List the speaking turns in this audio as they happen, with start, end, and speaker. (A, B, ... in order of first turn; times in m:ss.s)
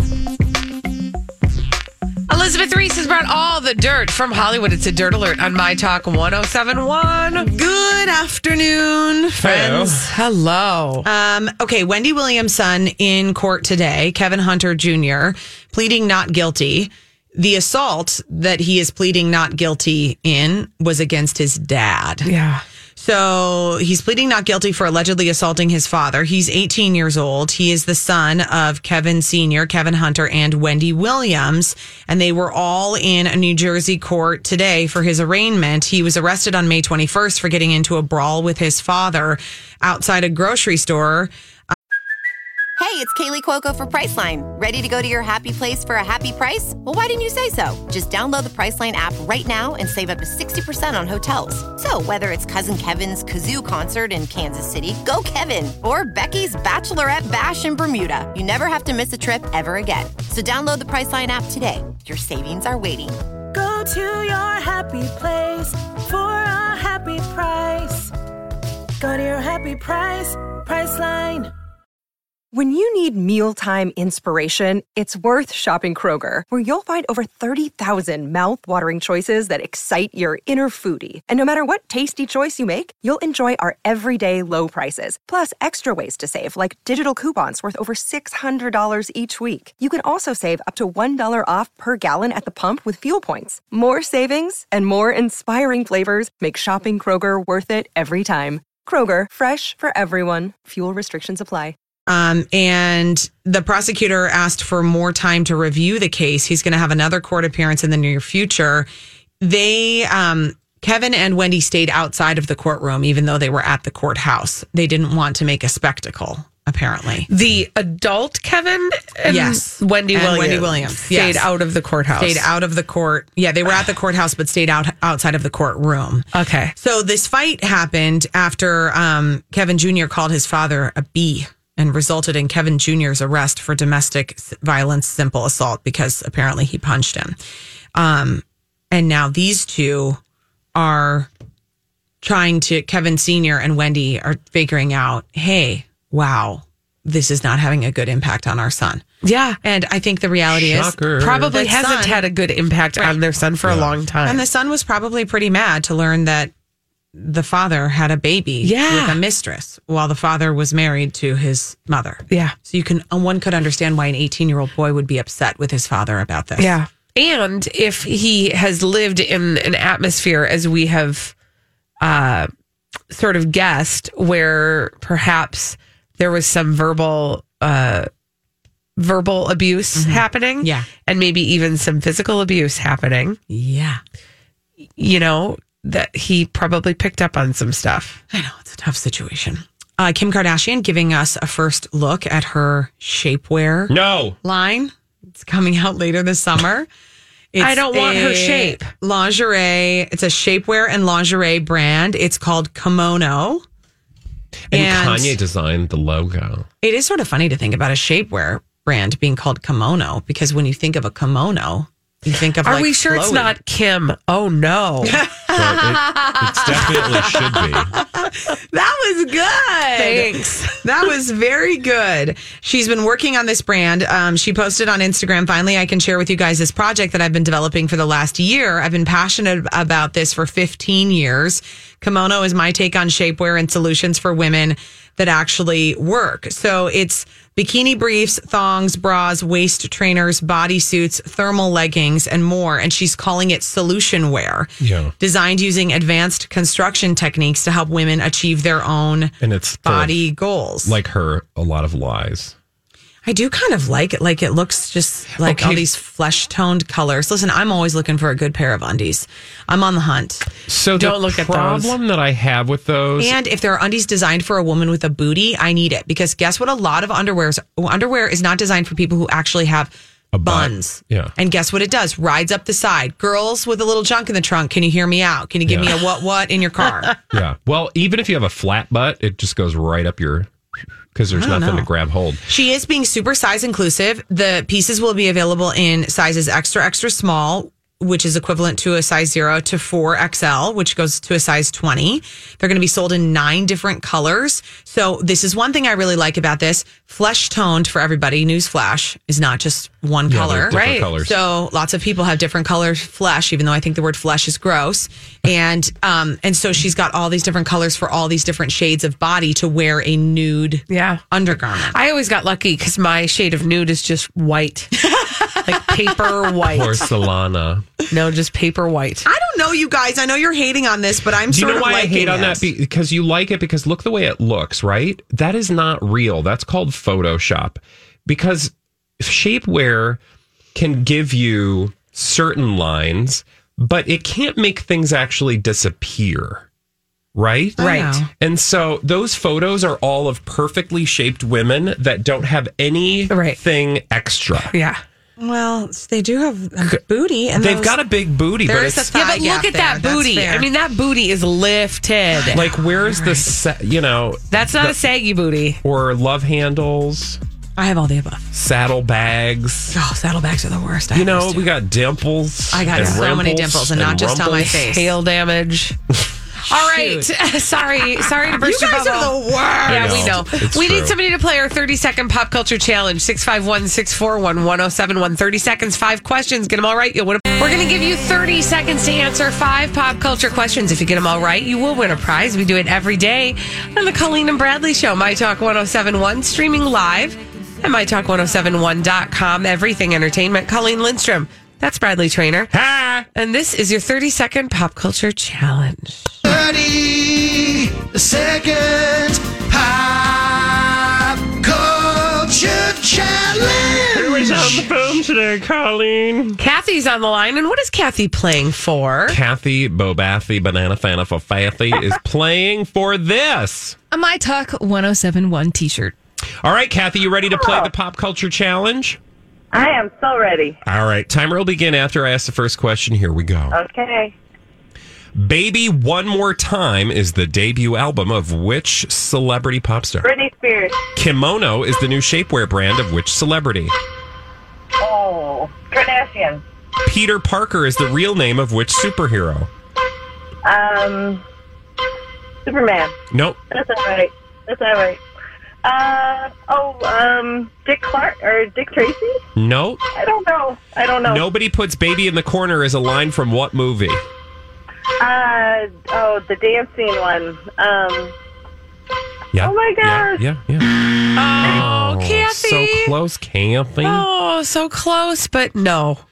0:02.3-0:07.5 A
0:07.4-0:10.0 B
0:09.4-0:10.1 C
0:10.0-0:11.1 A
0:11.0-0:22.3 B
0:22.2-0:22.6 A
0:23.0-0:41.3 B
0:42.8-1:03.2 D
1:03.5-1:08.1 E
1:09.0-1:11.5 E
1:12.5-1:41.8 F
1:42.1-1:48.9 B
1:49.4-1:57.3 B
1:57.3-2:02.5 A
1:59.3-2:01.5 B
2:02.2-2:17.4 B
2:06.3-2:06.7 A
2:18.0-2:20.2 B
2:20.8-2:21.3 B
2:22.2-2:29.0 B
2:29.2-2:29.6 A
2:29.6-2:32.3 B
2:30.5-2:31.5 C
2:31.2-2:34.4 A
2:33.6-2:33.9 C
2:34.2-2:36.5 B
2:37.2-2:46.7 B
2:38.6-2:39.2 A
2:42.3-2:42.6 A
2:46.6-2:51.3 A
2:52.0-2:52.5 A
2:53.1-2:58.1 A
2:59.0-3:03.4 A
3:00.0-3:00.9 B
3:03.5-3:04.0 B
3:05.0-3:08.2 A
3:08.3-3:16.9 B
3:13.9-3:14.4 C
3:17.5-3:23.6 B
3:17.6-3:18.9 A
3:24.7-3:26.7 C
3:24.7-3:25.4 B
3:26.8-3:33.5 B
3:32.6-3:35.2 A
3:35.0-3:36.0 B
3:35.5-3:38.0 C
3:36.7-4:11.0 B
3:40.0-3:40.8 A
4:04.8-4:05.1 C
4:09.4-4:10.2 C
4:10.8-4:12.6 C
4:13.2-4:20.5 B
4:15.4-4:15.9 C
4:20.7-4:23.4 C
4:21.0-4:22.0 A
4:23.2-4:37.1 B
4:30.3-4:31.3 C
4:35.7-4:36.0 C
4:37.3-4:40.5 C
4:41.1-4:42.4 C
4:41.3-4:41.9 B
4:42.5-5:12.0 B
5:00.3-5:01.4 C
5:00.7-5:01.1 A
5:10.9-5:11.2 A
5:11.9-5:15.0 A
5:15.1-5:16.2 B
5:15.6-5:17.1 A
5:16.7-5:17.9 C
5:18.1-5:19.3 A
5:19.3-5:22.7 B
5:21.5-5:30.2 C
5:30.8-5:36.7 C
5:37.4-5:44.7 C
5:37.8-5:38.3 B
5:37.8-5:38.1 A
5:43.3-5:43.6 A
5:44.7-5:45.0 A
5:45.4-5:48.0 B
5:47.6-5:49.1 C
5:48.6-5:50.7 B
5:49.1-5:52.6 A
5:52.4-5:53.5 B
5:52.5-5:55.0 C
5:54.5-5:55.8 A
5:55.8-5:57.4 C
5:57.8-5:58.5 B
5:58.5-6:00.0 C
5:59.9-6:01.7 B
6:01.1-6:04.7 C
6:02.7-6:05.2 B
6:03.0-6:03.2 A
6:04.6-6:06.0 A
6:06.7-6:07.3 B
6:06.7-6:32.7 A
6:08.3-6:10.5 B
6:09.9-6:11.2 C
6:32.7-6:33.3 C
6:33.4-6:36.4 A
6:36.4-6:44.8 G
6:44.1-6:46.6 C
6:46.6-6:49.4 A
6:49.3-6:54.0 C
6:54.1-6:56.2 H
6:56.6-6:59.2 C
6:57.5-6:57.9 I
6:59.7-7:00.8 I
7:00.8-7:03.8 C
7:03.7-7:04.4 I
7:05.4-7:10.3 C
7:10.2-7:11.0 I
7:11.2-7:14.0 C
7:15.0-7:16.6 I
7:17.0-7:19.7 C
7:20.6-7:21.4 I
7:22.6-7:23.2 I
7:23.3-7:23.6 C
7:23.7-7:25.2 I
7:25.8-7:29.4 I
7:29.6-7:30.0 C
7:30.1-7:31.5 I
7:31.2-7:34.2 C
7:35.2-7:38.4 I
7:39.5-7:40.9 C
7:39.6-7:40.4 I
7:41.4-7:43.1 A
7:41.6-7:44.3 C
7:44.0-7:46.2 A